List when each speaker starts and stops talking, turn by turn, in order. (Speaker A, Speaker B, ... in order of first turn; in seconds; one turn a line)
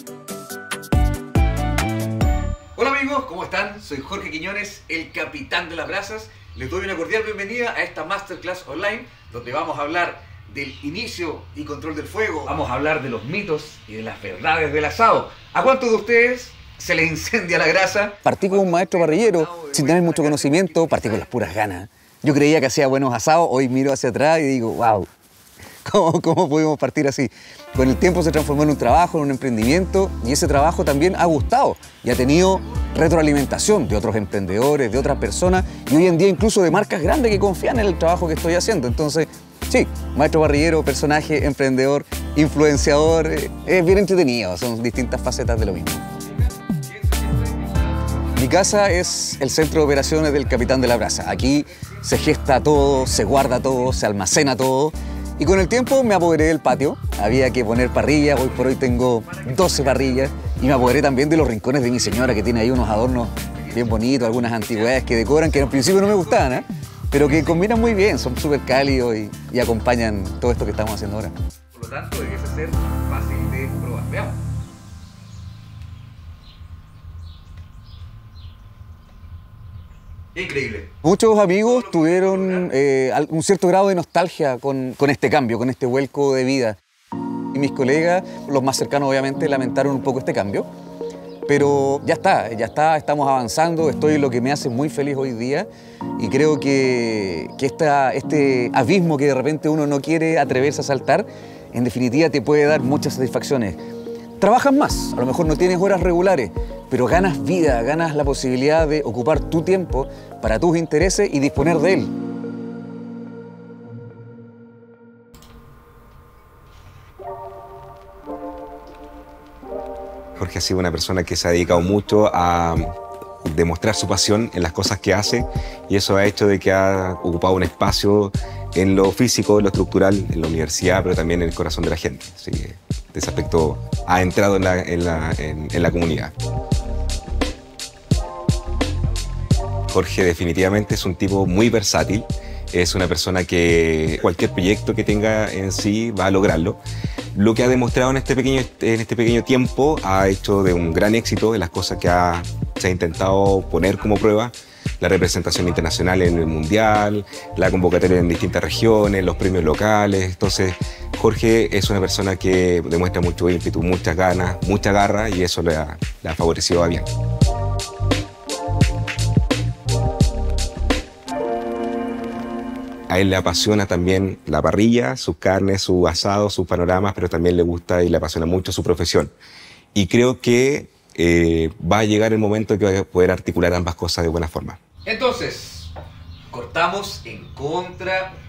Speaker A: 2.8-8.5
Speaker B: 4.1-11.5
Speaker A: 9.3-15.3
Speaker B: 12.5-21.3
Speaker A: 16.9-17.1
Speaker A: 18.1-25.1
Speaker A: 25.9-46.0
Speaker A: 48.4-71.3
Speaker B: 59.6-60.0
Speaker B: 64.7-66.5
Speaker B: 71.9-72.6
Speaker A: 73.2-74.2
Speaker A: 80.5-86.8
Speaker B: 81.6-82.7
Speaker A: 87.5-90.7
Speaker A: 91.5-103.8
Speaker A: 104.4-112.1
Speaker C: 120.4-122.9
Speaker C: 123.5-136.3
Speaker C: 139.9-146.8
Speaker C: 147.3-167.1
Speaker C: 173.1-179.3
Speaker C: 179.9-184.8
Speaker A: 185.1-185.8
Speaker A: 186.5-188.3